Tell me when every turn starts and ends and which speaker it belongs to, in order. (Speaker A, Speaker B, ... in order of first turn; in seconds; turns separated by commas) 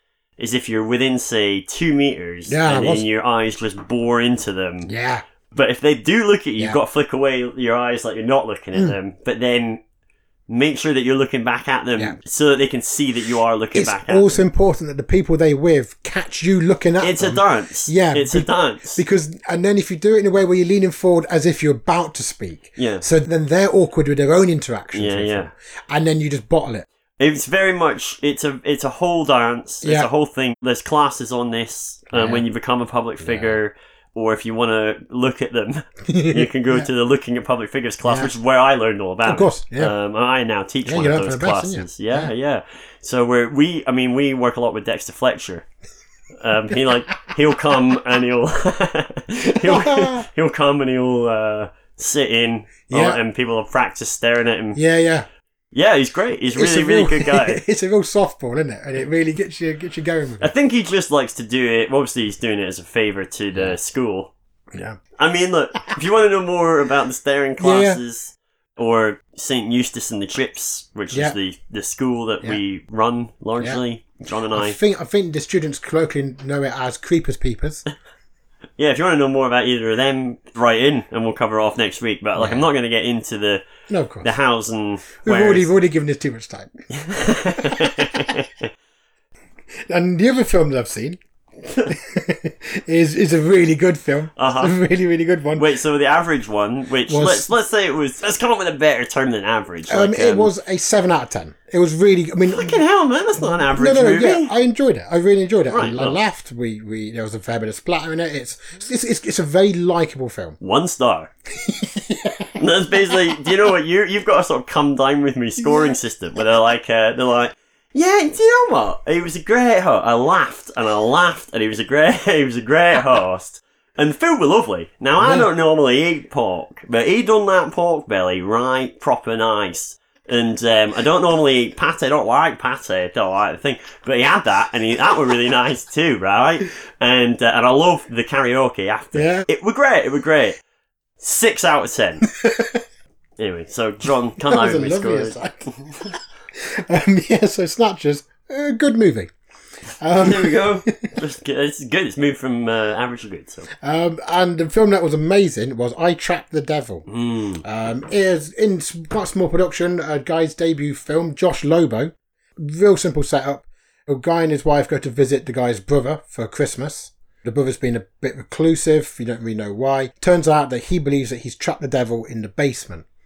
Speaker A: 0.4-4.9, Speaker B: 2.5-3.0, Speaker B: 4.8-5.2, Speaker A: 5.5-9.8, Speaker A: 10.5-14.4, Speaker B: 13.7-26.9, Speaker A: 17.0-19.0, Speaker A: 22.8-23.0, Speaker A: 24.9-25.5, Speaker A: 27.2-45.6, Speaker B: 29.8-30.1, Speaker B: 32.1-32.4, Speaker B: 33.2-33.6, Speaker B: 36.1-36.9, Speaker B: 38.0-38.3, Speaker B: 39.2-40.0, Speaker B: 40.8-42.3, Speaker A: 46.4-54.8, Speaker B: 49.5-50.3, Speaker B: 52.9-53.2, Speaker B: 54.7-55.3, Speaker A: 55.7-57.6, Speaker B: 56.5-60.5, Speaker A: 60.4-64.3, Speaker B: 64.7-65.0, Speaker A: 65.2-74.8, Speaker B: 67.6-68.0, Speaker B: 74.5-77.8, Speaker A: 78.8-83.6, Speaker B: 82.4-82.7, Speaker B: 83.9-84.3, Speaker A: 84.2-85.7, Speaker B: 85.2-86.7, Speaker A: 86.9-88.7, Speaker B: 87.5-88.4, Speaker B: 89.9-91.2, Speaker B: 91.8-95.7, Speaker A: 94.4-94.7, Speaker A: 95.5-100.5, Speaker B: 97.1-97.5, Speaker B: 99.9-102.8, Speaker A: 102.5-104.5, Speaker B: 103.4-110.6, Speaker A: 105.7-106.2, Speaker A: 110.6-111.3, Speaker B: 111.5-113.6, Speaker A: 112.6-140.6, Speaker B: 115.6-116.0, Speaker B: 125.2-125.5, Speaker B: 139.1-139.5, Speaker A: 141.2-142.3, Speaker B: 142.3-142.8, Speaker A: 143.4-146.1, Speaker B: 144.4-149.3, Speaker B: 150.0-151.2, Speaker A: 150.2-153.7, Speaker B: 153.8-157.1, Speaker A: 157.1-157.6, Speaker B: 157.6-173.1